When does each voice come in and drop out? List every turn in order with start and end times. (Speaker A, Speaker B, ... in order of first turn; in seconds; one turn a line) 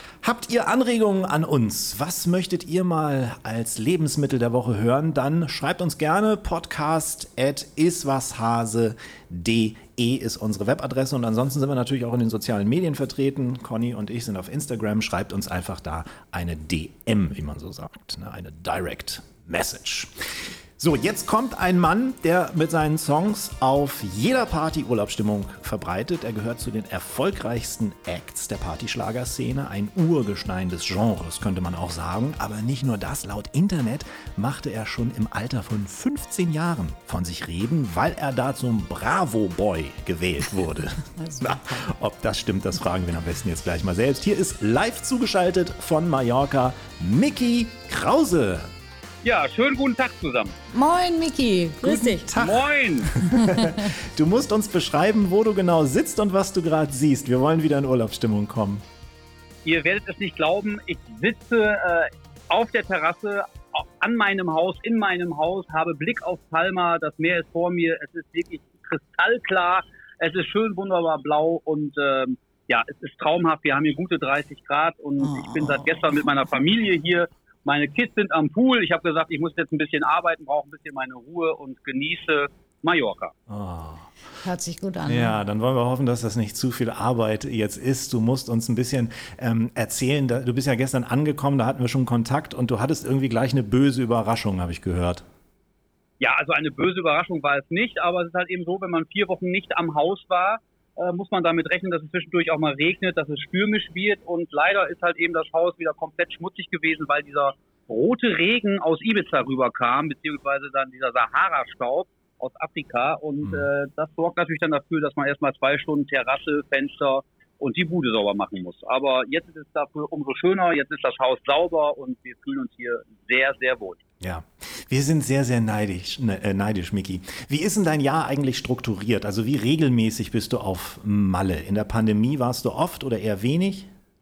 Speaker A: 0.2-48.7
Speaker B: 41.1-41.9
Speaker C: 49.2-50.5
Speaker B: 50.7-52.3
Speaker A: 51.8-58.8
Speaker C: 52.4-53.1
Speaker B: 53.3-53.9
Speaker C: 59.6-83.3
Speaker B: 75.2-76.1
Speaker A: 83.5-84.1
Speaker B: 84.4-85.3
Speaker A: 85.1-95.2
Speaker C: 96.2-124.0
Speaker A: 124.2-133.9